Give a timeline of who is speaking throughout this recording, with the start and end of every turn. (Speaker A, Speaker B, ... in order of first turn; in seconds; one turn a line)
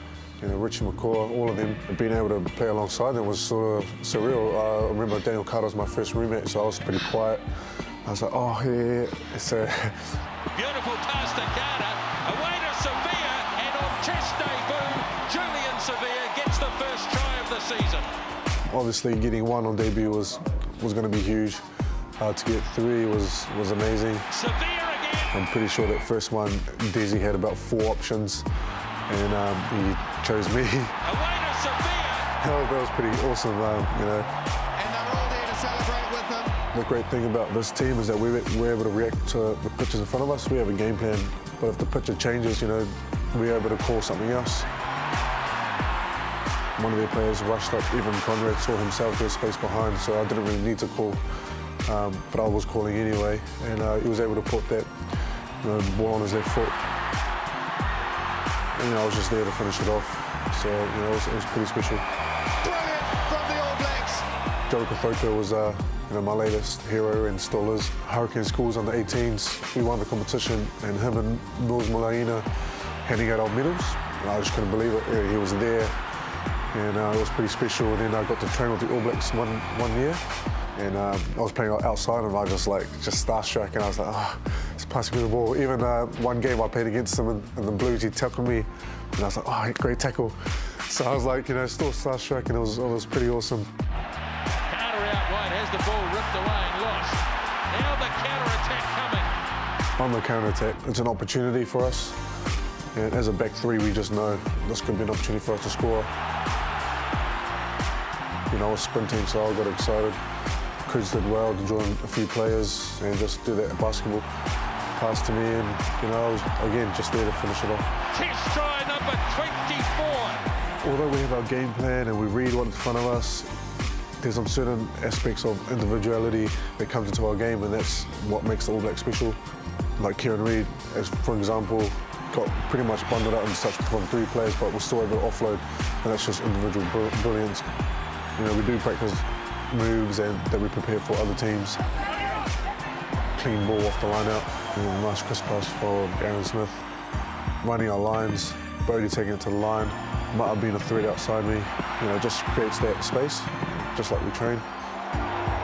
Speaker A: 0.4-10.2
Speaker B: 10.5-18.1
Speaker A: 18.7-21.6
Speaker A: 22.2-24.3
Speaker B: 24.3-25.3
Speaker A: 25.3-28.5
Speaker A: 29.1-31.0
Speaker B: 31.0-32.3
Speaker A: 32.4-34.3
Speaker C: 34.8-36.6
Speaker A: 36.7-44.7
Speaker A: 46.8-51.2
Speaker A: 51.8-54.9
Speaker A: 55.6-56.8
Speaker A: 58.8-62.0
Speaker C: 62.6-64.3
Speaker A: 64.7-72.5
Speaker A: 73.0-76.0
Speaker A: 76.7-80.2
Speaker A: 80.8-93.7
Speaker B: 94.7-99.3
Speaker A: 100.0-102.2
Speaker A: 102.9-106.1
Speaker A: 108.5-110.2
Speaker A: 110.8-114.3
Speaker A: 115.0-117.9
Speaker B: 118.1-120.5
Speaker A: 120.8-123.5
Speaker A: 124.2-129.4
Speaker A: 130.0-137.7
Speaker A: 138.4-141.8
Speaker A: 143.3-146.9
Speaker A: 147.6-154.7